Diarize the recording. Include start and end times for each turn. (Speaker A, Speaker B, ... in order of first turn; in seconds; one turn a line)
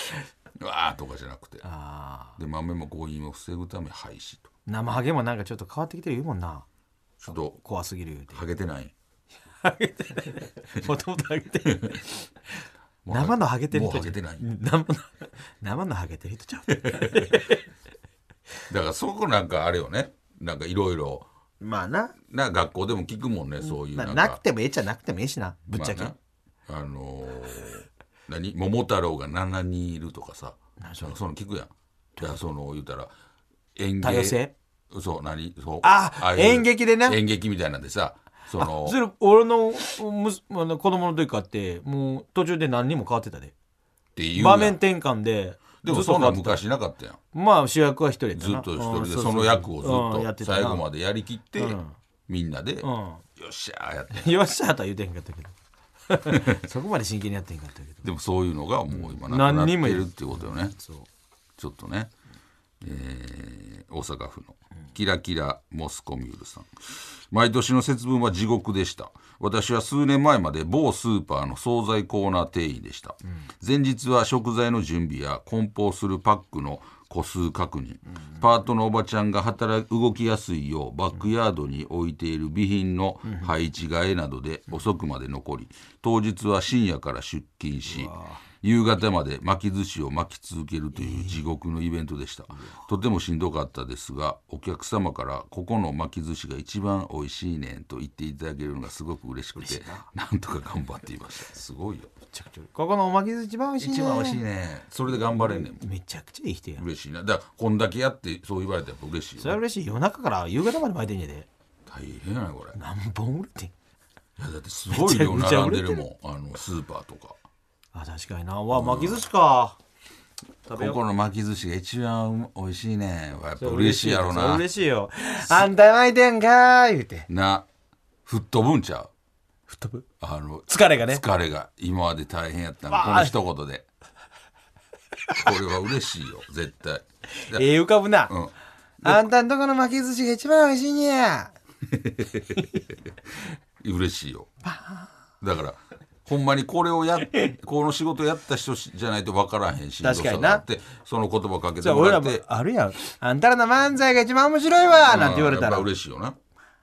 Speaker A: 0.6-1.6
Speaker B: 1.6-2.4
Speaker A: 2.4-4.5
Speaker B: 4.7-6.7
Speaker A: 7.2-7.6
Speaker B: 7.6-8.4
Speaker A: 8.3-8.9
Speaker B: 9.6-12.1
Speaker A: 11.7-12.0
Speaker A: 13.1-14.4
Speaker B: 13.1-17.6
Speaker A: 16.9-17.3
Speaker A: 18.7-21.3
Speaker B: 21.6-22.1
Speaker A: 22.3-24.4
Speaker B: 23.6-26.1
Speaker A: 25.7-26.1
Speaker A: 26.7-33.1
Speaker B: 30.8-31.2
Speaker A: 33.8-39.0
Speaker B: 34.0-34.5
Speaker B: 35.8-37.2
Speaker B: 38.6-43.5
Speaker A: 44.2-44.8
Speaker B: 44.4-46.6
Speaker A: 45.8-47.2
Speaker B: 47.3-50.9
Speaker A: 48.4-54.4
Speaker B: 51.6-52.0
Speaker B: 52.8-53.2
Speaker B: 54.1-55.5
Speaker B: 56.1-58.0
Speaker A: 56.3-56.6
Speaker A: 58.0-60.8
Speaker B: 58.9-61.1
Speaker A: 61.6-62.1
Speaker A: 62.8-102.1
Speaker B: 83.2-83.5
Speaker B: 87.9-88.4
Speaker B: 91.0-91.4
Speaker B: 99.6-100.1
Speaker B: 102.3-104.4
Speaker A: 103.8-105.8
Speaker B: 105.1-106.8
Speaker A: 106.8-109.6
Speaker B: 109.4-111.5
Speaker A: 111.9-112.8
Speaker B: 112.8-113.7
Speaker A: 114.4-117.4
Speaker B: 114.9-116.0
Speaker B: 117.9-119.8
Speaker A: 118.7-119.2
Speaker B: 120.7-121.0
Speaker A: 120.8-124.7
Speaker B: 123.6-127.3
Speaker A: 127.3-127.7
Speaker A: 128.3-129.1
Speaker B: 129.7-130.1
Speaker A: 130.2-133.9
Speaker B: 130.7-131.2
Speaker B: 132.9-133.3
Speaker A: 135.3-137.7
Speaker B: 137.4-138.3
Speaker A: 138.3-139.3
Speaker B: 139.0-141.5
Speaker A: 141.9-142.9
Speaker A: 143.8-144.5
Speaker B: 144.7-145.1
Speaker A: 145.4-152.4
Speaker B: 150.0-150.6
Speaker B: 151.8-155.9
Speaker A: 154.9-156.4